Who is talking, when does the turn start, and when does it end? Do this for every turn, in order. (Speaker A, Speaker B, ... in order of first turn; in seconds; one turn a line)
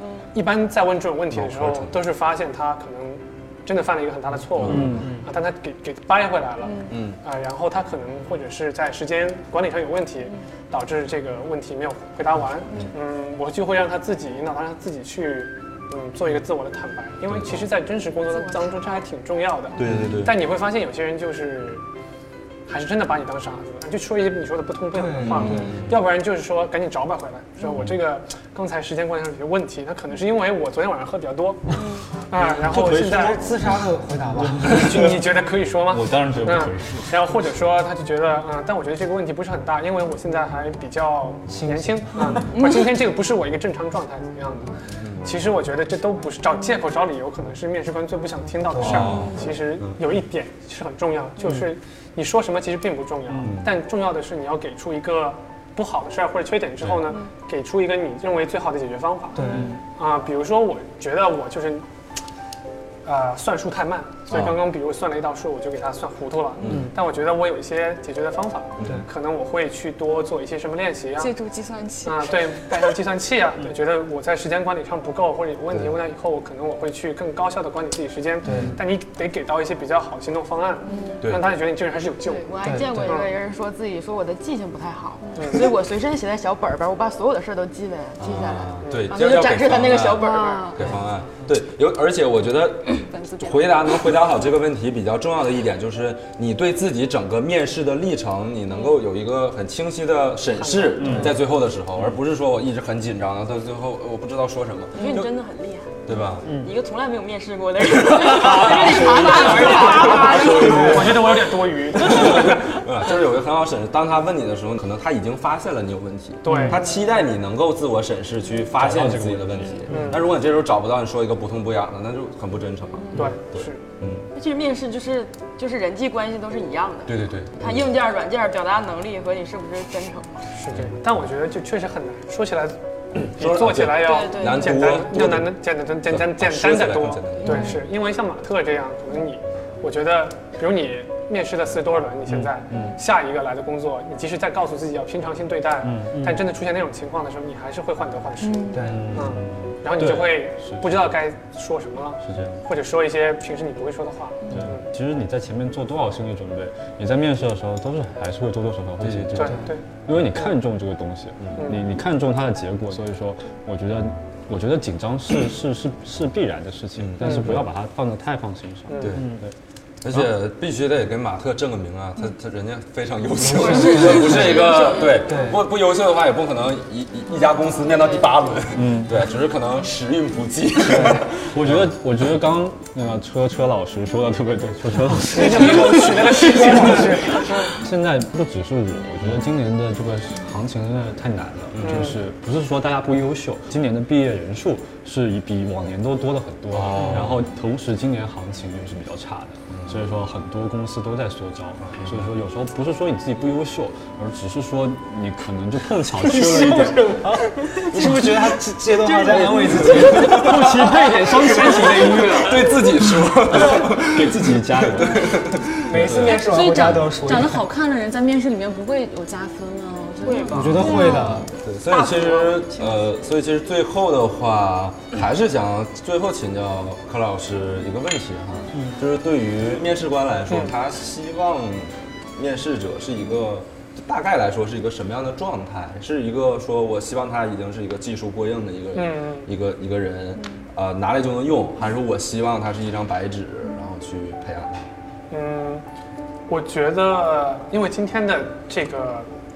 Speaker A: 0.3-21.8
Speaker B: 1.3-1.9
Speaker B: 4.5-5.1
Speaker C: 4.6-5.2
Speaker D: 4.9-5.2
Speaker E: 6.7-6.9
Speaker B: 6.9-7.2
Speaker B: 17.3-17.7
Speaker B: 19.8-20.3
Speaker A: 22.7-33.5
Speaker D: 24.9-25.7
Speaker B: 25.2-26.0
Speaker E: 25.4-25.8
Speaker D: 32.6-34.8
Speaker C: 34.4-35.2
Speaker A: 34.6-61.8
Speaker C: 35.9-37.1
Speaker D: 41.5-42.5
Speaker E: 42.5-42.9
Speaker B: 45.0-45.3
Speaker D: 48.7-49.1
Speaker B: 48.8-49.9
Speaker C: 48.9-49.1
Speaker B: 53.4-53.8
Speaker D: 59.3-59.7
Speaker C: 59.5-59.8
Speaker A: 63.0-71.3
Speaker B: 64.3-64.6
Speaker B: 66.6-66.9
Speaker B: 68.8-69.0
Speaker E: 71.2-72.9
Speaker A: 72.0-83.3
Speaker B: 75.7-76.0
Speaker D: 78.4-78.8
Speaker E: 80.8-81.3
Speaker B: 81.2-81.6
Speaker F: 82.2-90.8
Speaker D: 82.6-83.1
Speaker E: 85.2-85.5
Speaker A: 85.4-85.7
Speaker B: 88.2-105.3
Speaker A: 88.8-89.1
Speaker E: 90.1-91.0
Speaker E: 93.0-93.7
Speaker A: 100.6-101.2
Speaker C: 101.0-101.3
Speaker D: 101.1-101.3
Speaker F: 105.0-111.2
Speaker B: 106.0-106.6
Speaker B: 108.0-124.3
Speaker C: 108.4-111.2
Speaker A: 109.8-112.7
Speaker A: 116.4-116.8
Speaker C: 116.5-116.8
Speaker C: 118.8-120.1
Speaker A: 119.9-120.3
Speaker A: 123.1-123.8
Speaker F: 124.3-130.5
Speaker B: 127.0-127.9
Speaker A: 130.5-154.8
Speaker B: 133.2-137.7
Speaker F: 134.0-134.9
Speaker E: 137.4-137.8
Speaker C: 142.7-142.9
Speaker C: 145.8-146.4
Speaker E: 148.4-148.8
Speaker D: 148.7-149.1
Speaker C: 148.8-151.1
Speaker C: 152.2-152.6
Speaker C: 154.5-169.5
Speaker B: 159.0-159.6
Speaker A: 159.3-159.8
Speaker A: 161.6-161.8
Speaker B: 166.9-167.6
Speaker A: 168.9-169.2
Speaker B: 169.0-169.4
Speaker B: 170.0-181.9
Speaker D: 173.4-174.6
Speaker F: 173.5-175.3
Speaker D: 175.2-175.6
Speaker C: 178.7-179.1
Speaker D: 180.9-181.2
Speaker C: 181.5-187.2
Speaker A: 185.3-187.7
Speaker D: 185.3-185.9
Speaker D: 186.4-187.4
Speaker C: 187.7-207.2
Speaker B: 191.7-192.2
Speaker A: 191.8-192.2
Speaker B: 196.7-197.4
Speaker B: 199.7-200.1
Speaker B: 201.8-202.3
Speaker D: 206.2-210.6
Speaker C: 209.1-212.8
Speaker B: 209.2-210.9
Speaker B: 211.6-216.5
Speaker C: 213.5-215.4
Speaker D: 215.8-217.6
Speaker E: 216.0-221.5
Speaker F: 220.2-221.3
Speaker D: 220.5-221.5
Speaker B: 220.5-221.0
Speaker B: 221.6-244.9
Speaker F: 221.9-222.9
Speaker A: 238.9-239.5
Speaker A: 245.3-245.8
Speaker A: 246.5-249.3